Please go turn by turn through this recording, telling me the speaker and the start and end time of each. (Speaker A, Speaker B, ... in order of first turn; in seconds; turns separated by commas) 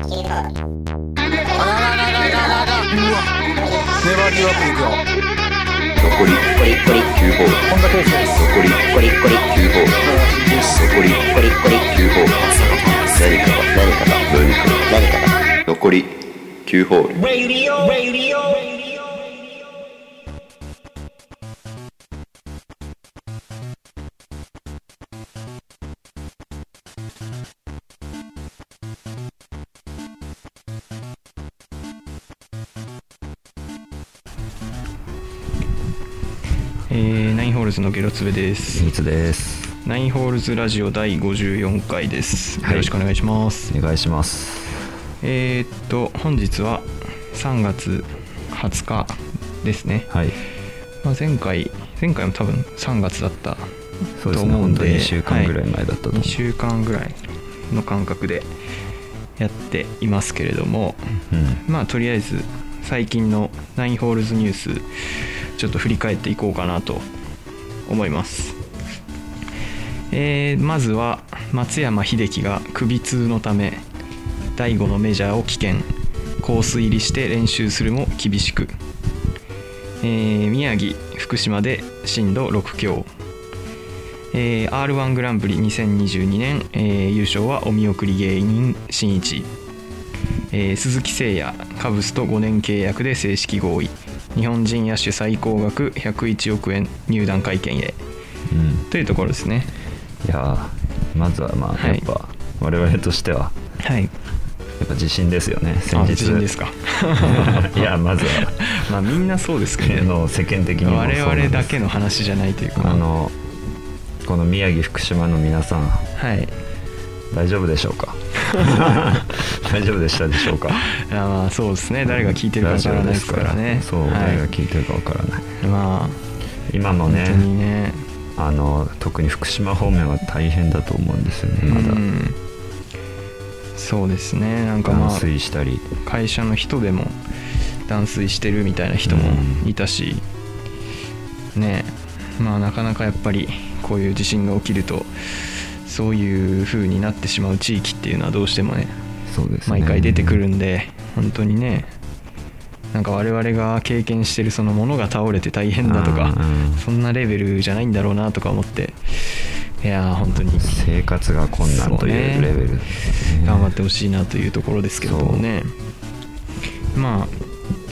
Speaker A: 1.8-2.9, Speaker A: 4.0-5.0, Speaker B: 6.0-7.7, Speaker A: 7.8-8.3, Speaker B: 8.3-16.1, Speaker B: 16.7-17.2, Speaker A: 17.2-18.9, Speaker C: 36.9-38.9, Speaker D: 38.8-39.7, Speaker C: 39.8-43.7, Speaker D: 42.6-42.9, Speaker D: 43.7-44.9, Speaker C: 45.2-50.1, Speaker D: 50.1-50.4, Speaker C: 51.0-53.7, Speaker D: 54.2-56.4, Speaker C: 54.3-55.5, Speaker C: 56.1-58.5, Speaker C: 59.4-61.0, Speaker D: 61.3-61.6, Speaker C: 61.7-64.8, Speaker C: 65.6-67.1, Speaker C: 67.9-68.6, Speaker C: 70.1-73.8, Speaker C: 74.6-78.7, Speaker C: 80.0-83.1, Speaker C: 84.3-89.5, Speaker C: 90.5-98.0, Speaker D: 98.5-98.9, Speaker C: 98.9-99.7, Speaker D: 100.2-103.5, Speaker C: 101.8-102.0, Speaker C: 103.8-104.1, Speaker D: 104.8-106.5, Speaker C: 105.9-110.1, Speaker D: 107.2-108.5, Speaker D: 109.8-111.8, Speaker C: 110.8-113.0, Speaker D: 112.8-113.3, Speaker D: 114.2-116.1, Speaker C: 116.2-116.5, Speaker D: 117.3-120.9, Speaker C: 120.8-124.5, Speaker D: 122.1-125.5, Speaker C: 125.6-126.2, Speaker D: 126.7-127.5, Speaker C: 127.1-128.1, Speaker D: 128.4-132.0, Speaker C: 131.6-132.4, Speaker C: 133.8-135.3, Speaker D: 134.8-135.9, Speaker C: 136.1-137.2, Speaker C: 137.9-140.2, Speaker D: 139.1-139.7, Speaker C: 141.6-145.1, Speaker C: 145.8-148.9, Speaker D: 149.3-150.4, Speaker C: 149.7-151.9, Speaker C: 152.9-160.8, Speaker D: 155.8-156.8, Speaker D: 160.6-163.7, Speaker C: 161.6-162.5, Speaker C: 163.4-165.7, Speaker D: 165.0-165.4, Speaker C: 166.9-167.3